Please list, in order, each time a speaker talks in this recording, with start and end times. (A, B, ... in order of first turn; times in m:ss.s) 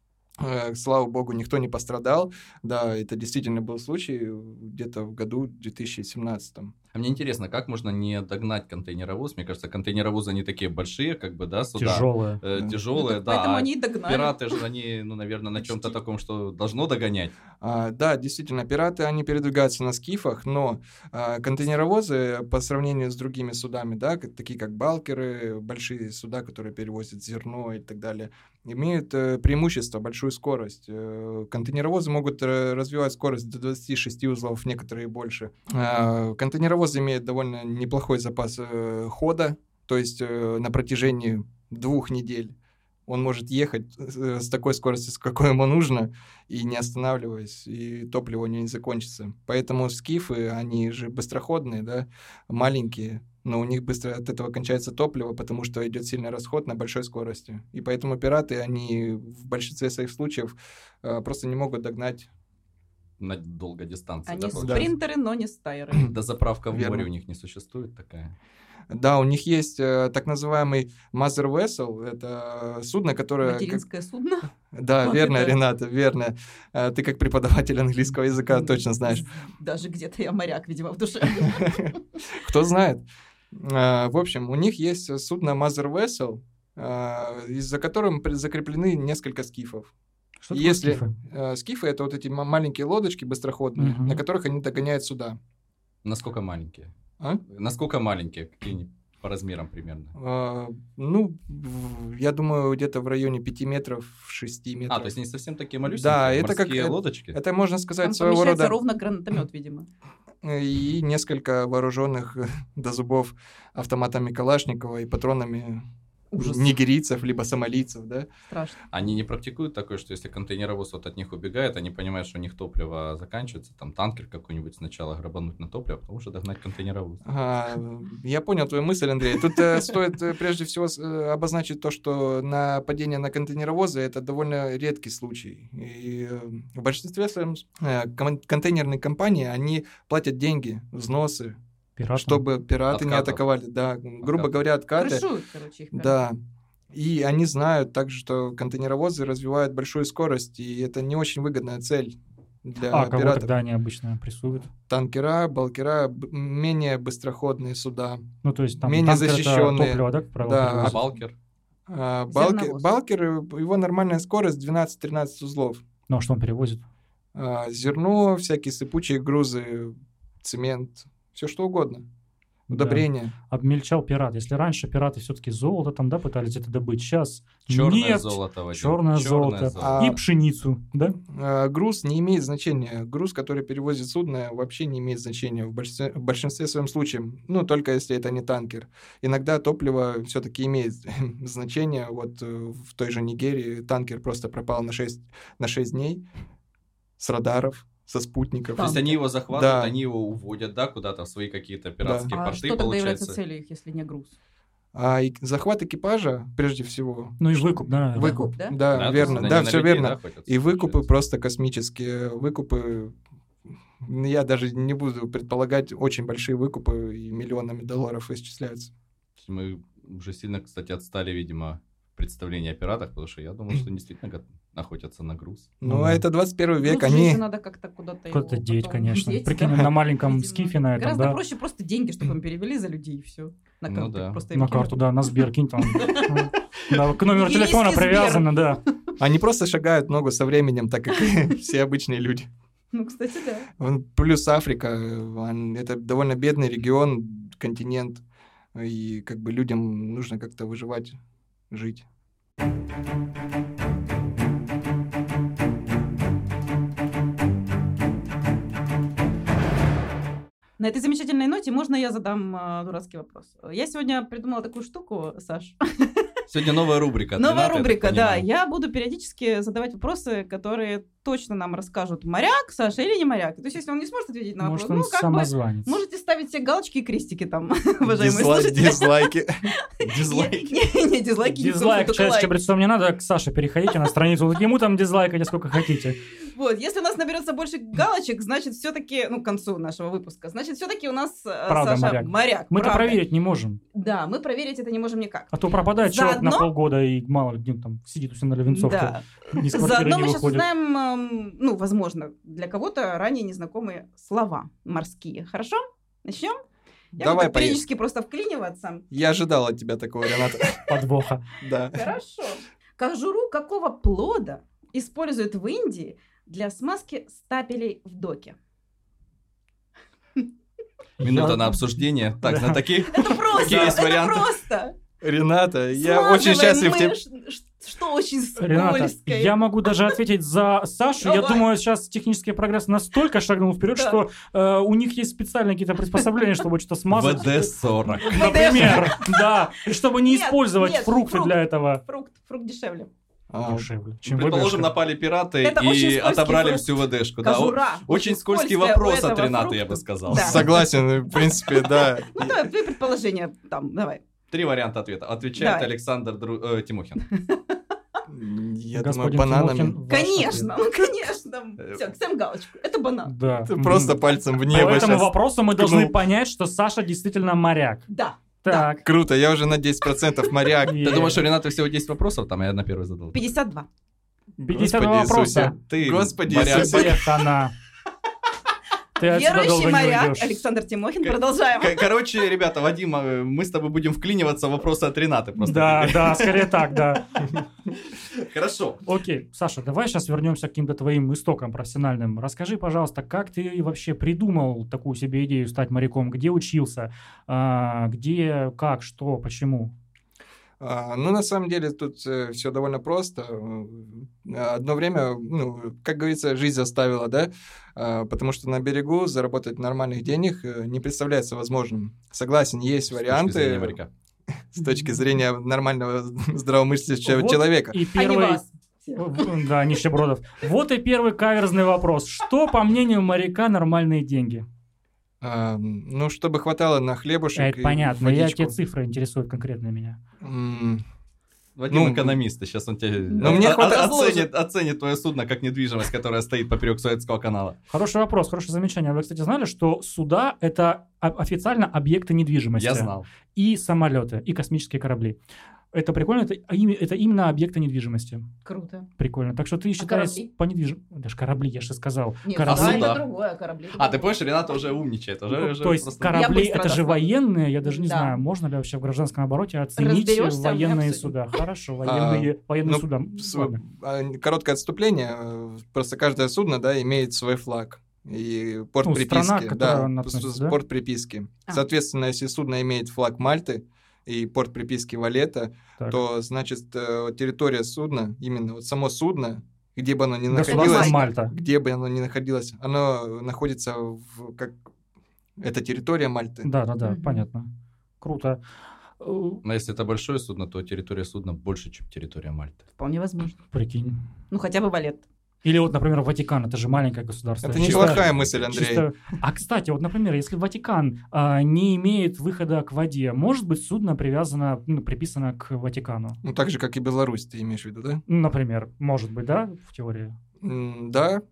0:00.4-0:06.7 A
0:06.9-0:17.3 B
0:11.8-0:12.4 C
0:12.9-0:14.6 D
0:15.6-0:16.0 D
0:17.6-0:42.5 A
0:43.1-1:02.3 A
1:03.2-1:04.9 B
1:04.3-1:06.1 D
1:04.5-1:04.9 A
1:06.0-1:08.3 B
1:06.7-1:07.1 A
1:08.9-1:13.8 A
1:13.4-1:14.5 D
1:14.7-1:19.2 A
1:15.0-1:15.6 D
1:18.5-1:22.0 D
1:21.5-1:21.8 A
1:22.3-1:29.9 A
1:30.4-1:31.1 C
1:30.5-1:35.4 A
1:33.8-1:34.2 C
1:36.0-1:36.9 B
1:37.5-1:40.1 B
1:40.1-1:45.1 A
1:44.9-1:47.4 B
1:45.9-1:48.8 A
1:48.0-1:49.9 D
1:50.4-1:55.8 A
1:56.3-1:56.7 D
1:56.4-1:58.3 A
1:58.5-1:58.8 D
1:58.9-2:07.2 B
2:07.2-2:21.6 A
2:22.0-2:22.4 C
2:22.1-2:25.2 A
2:22.9-2:23.4 B
2:24.2-2:24.5 B
2:25.0-2:26.2 D
2:25.9-2:26.4 A
2:26.9-2:33.5 A
2:32.9-2:34.7 C
2:34.7-2:38.2 A
2:38.4-2:41.0 C
2:38.8-2:41.1 A
2:40.8-2:41.3 B
2:41.9-2:45.8 A
2:42.3-2:42.9 D
2:46.1-2:46.8 C
2:47.3-2:52.0 A
2:52.7-2:53.3 A
2:52.7-3:01.2 C
2:57.7-3:00.0 B
2:59.8-3:00.2 A
3:01.3-3:16.2 A
3:17.2-3:19.9 A
3:18.8-3:19.2 D
3:18.8-3:23.4 B
3:22.0-3:22.3 A
3:22.3-3:24.3 D
3:24.9-3:33.1 A
3:27.4-3:28.5 C
3:28.5-3:29.5 D
3:28.9-3:31.1 B
3:34.0-3:38.9 A
3:39.4-3:45.7 B
3:45.8-3:47.4 A
3:45.8-3:46.2 C
3:46.8-3:55.0 D
3:48.3-3:51.4 C
3:53.9-3:54.4 B
3:54.5-3:58.8 C
3:55.8-3:59.0 D
3:59.2-4:02.5 A
4:02.9-4:03.7 D
4:03.8-4:08.2 A
4:08.7-4:11.2 A
4:11.7-4:12.0 A
4:20.8-4:26.3 D
4:26.5-4:28.4 B
4:27.4-4:39.3 D
4:34.6-4:36.0 C
4:38.0-4:39.5 A
4:40.0-4:40.8 B
4:40.2-4:42.5 D
4:41.4-4:46.2 C
4:46.4-4:53.2 D
4:51.7-4:53.8 C
4:53.9-4:56.7 D
4:55.5-5:00.6 C
4:58.7-5:06.6 D
5:07.2-5:09.0 D
5:07.2-5:07.8 A
5:09.1-5:10.9 A
5:10.9-5:11.4 C
5:11.6-5:12.1 A
5:11.9-5:18.6 D
5:21.2-5:21.8 C
5:21.2-5:24.5 B
5:22.4-5:22.8 C
5:23.1-5:24.9 D
5:23.6-5:24.1 A
5:25.2-5:27.2 A
5:25.9-5:29.9 D
5:28.6-5:42.0 C
5:31.2-5:31.6 D
5:37.1-5:39.0 B
5:38.3-5:39.6 D
5:40.2-5:43.1 D
5:43.5-5:43.9 A
5:43.6-5:44.9 C
5:44.2-5:50.8 B
5:45.6-5:54.2 D
5:50.3-5:52.7 A
5:54.5-5:57.2 B
5:55.6-5:55.9 D
5:57.3-5:57.8 D
5:58.3-6:00.0 A
5:58.9-6:00.7 C
6:00.1-6:03.3 D
6:01.8-6:02.0 B
6:03.2-6:08.0 C
6:03.7-6:06.1 A
6:08.1-6:08.9 D
6:08.6-6:09.0 C
6:09.0-6:11.3 A
6:10.8-6:11.4 C
6:11.0-6:13.5 B
6:13.3-6:13.9 D
6:14.6-6:17.2 A
6:14.6-6:15.8 C
6:15.8-6:17.2 B
6:16.5-6:17.7 C
6:19.2-6:20.6 C
6:19.2-6:22.1 D
6:21.2-6:27.0 B
6:25.6-6:27.2 C
6:27.9-6:29.0 B
6:29.0-6:39.9 C
6:40.8-6:54.0 A
6:53.1-6:54.1 B
6:54.7-6:58.0 A
6:57.2-6:58.6 C
6:58.1-6:59.5 D
6:59.1-7:04.6 C
7:05.4-7:08.8 A
7:07.6-7:10.2 C
7:10.4-7:11.0 A
7:11.8-7:17.8 B
7:11.9-7:12.4 A
7:13.3-7:13.7 D
7:13.4-7:14.5 A
7:17.9-7:25.4 C
7:22.8-7:23.2 B
7:25.9-7:28.4 C
7:28.6-7:29.1 D
7:29.2-7:33.1 C
7:30.0-7:30.5 D
7:32.4-7:34.8 D
7:32.6-7:33.2 B
7:33.9-7:36.4 B
7:35.5-7:43.8 C
7:36.3-7:37.3 D
7:37.8-7:38.3 D
7:40.0-7:41.4 D
7:42.0-8:04.8 A
7:49.0-7:50.8 C
8:00.5-8:01.5 C
8:00.6-8:01.3 D
8:05.6-8:06.7 A
8:06.6-8:07.7 C
8:07.0-8:07.4 D
8:08.2-8:08.6 C
8:09.2-8:09.6 C
8:09.6-8:12.8 B
8:13.0-8:13.6 D
8:13.7-8:14.2 C
8:14.5-8:15.2 D
8:15.6-8:26.4 C
8:17.6-8:19.1 A
8:17.7-8:18.8 B
8:26.4-8:28.2 A
8:28.3-8:30.4 C
8:30.6-8:31.4 A